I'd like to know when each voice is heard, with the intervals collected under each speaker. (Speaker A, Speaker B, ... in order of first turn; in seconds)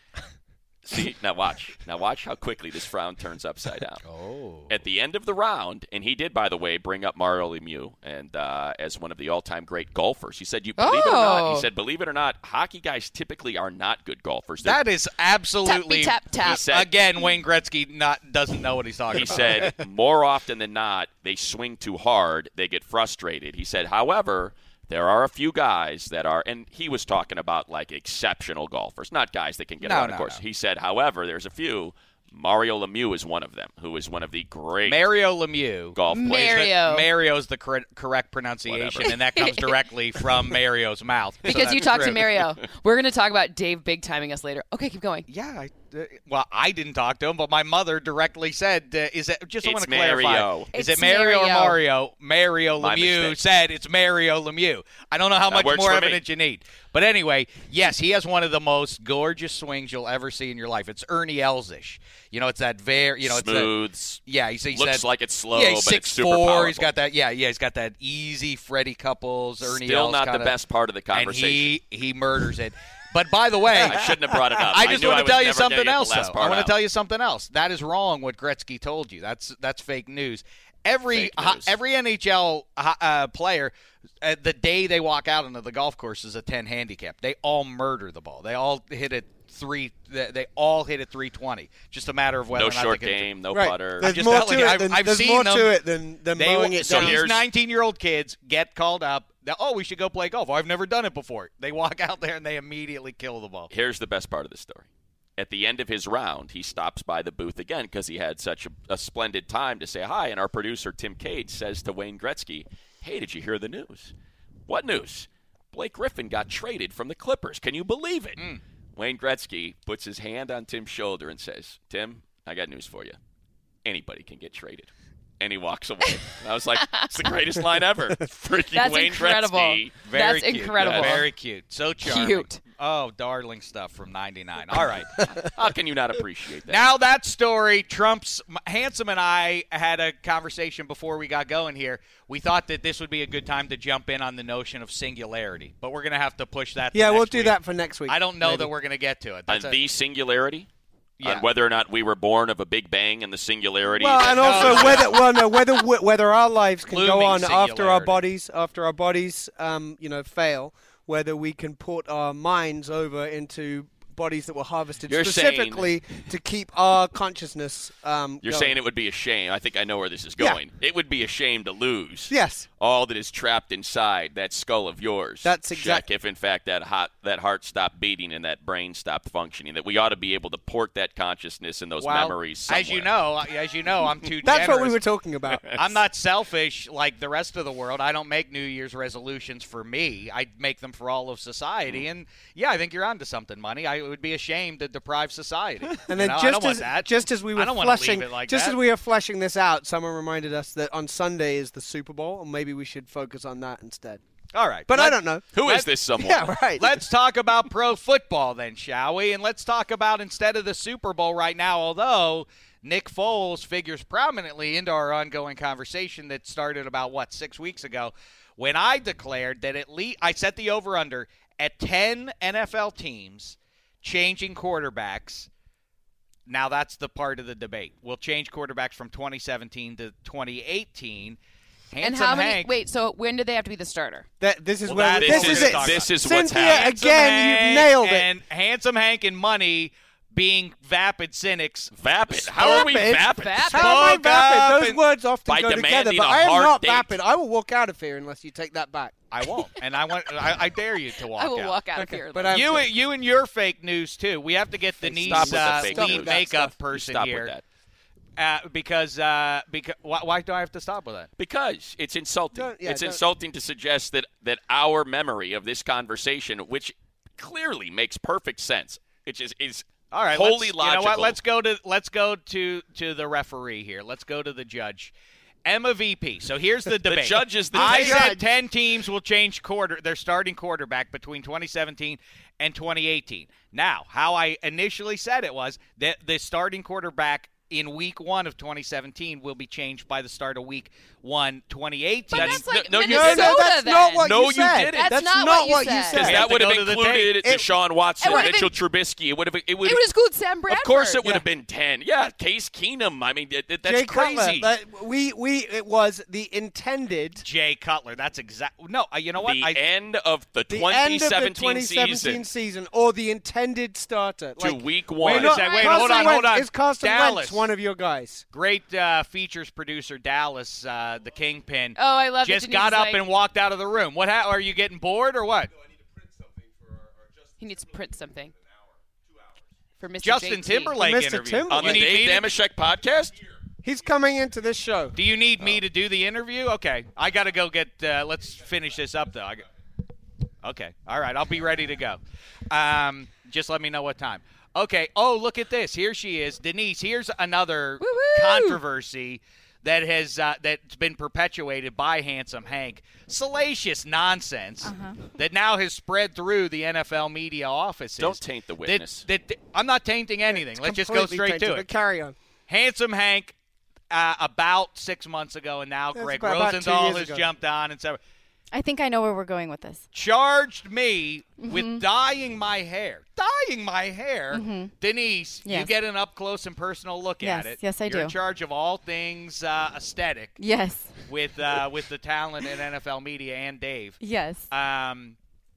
Speaker A: 0.8-4.0, 4.7-14.8, 16.4-16.9, 19.1-35.1, 36.0-36.8, 38.7-39.2, 41.5-42.4, 49.6-50.7, 52.8-53.4, 55.5-56.2, 63.2-64.2, 64.7-66.9, 69.6-71.7, 73.7-76.8, 81.1-81.7, 92.5-94.1, 96.8-97.4, 103.7-114.1, 114.7-118.4, 119.0-123.2, 123.8-130.1, 130.8-131.2, 135.4-136.8, 149.5-150.7, 151.2-155.5, 165.1-165.9, 168.4-183.2, 205.5-206.6, 235.1-237.0, 241.9-244.0, 245.5-247.1, 255.2-257.6, 261.4-271.4, 277.1-278.4, 292.3-295.3, 296.1-300.1, 300.7-304.7, 309.4-312.4, 314.6-315.9, 331.7-333.4, 358.2-359.2
Speaker B: 4.0-4.7, 14.6-19.8, 29.8-30.4, 34.8-42.3, 45.3-70.5, 71.1-93.3, 94.0-95.7, 96.3-103.7, 130.0-135.3, 136.7-149.8, 151.2-151.5, 154.2-155.2, 156.9-158.2, 182.0-185.0, 185.7-198.8, 204.5-205.9, 206.8-225.5, 226.5-231.4, 231.9-232.7, 234.9-241.9, 243.7-245.0, 249.3-251.8, 252.5-257.5, 258.4-261.3, 270.1-275.1, 275.6-292.6, 296.2-297.5, 307.4-309.8, 315.2-317.7, 318.5-325.7, 330.2-332.5, 335.1-339.6, 340.6-342.2, 342.7-361.9, 362.7-363.5, 364.1-368.2, 370.1-380.6, 381.2-385.4
Speaker C: 10.8-11.7, 15.6-16.7, 36.1-37.1, 39.4-39.7, 41.5-45.3, 50.7-51.8, 128.7-131.3, 132.0-132.6, 232.0-234.3, 243.3-244.0, 251.3-252.8, 292.3-294.3, 294.9-296.3, 298.2-298.8, 299.8-301.3, 315.6-316.4, 322.0-323.2, 327.6-328.5, 330.0-331.0, 348.0-348.8
Speaker D: 93.5-97.2, 146.9-148.7, 153.9-168.8, 172.3-172.7, 175.4-176.1, 184.4-185.6, 196.1-204.2, 204.9-205.4, 206.2-206.9, 234.4-238.3, 242.5-249.1, 252.0-252.9, 255.0-256.7, 262.5-263.2, 277.7-278.4, 292.9-296.5, 298.3-298.5, 303.8-307.4, 310.7-318.4, 331.0-332.1, 333.8-335.2, 360.5-362.4, 366.1-367.4
Speaker E: 354.8-355.3, 368.7-370.0, 371.6-372.0, 374.5-374.9, 375.6-375.9, 377.4-378.3, 380.6-381.2, 384.2-384.7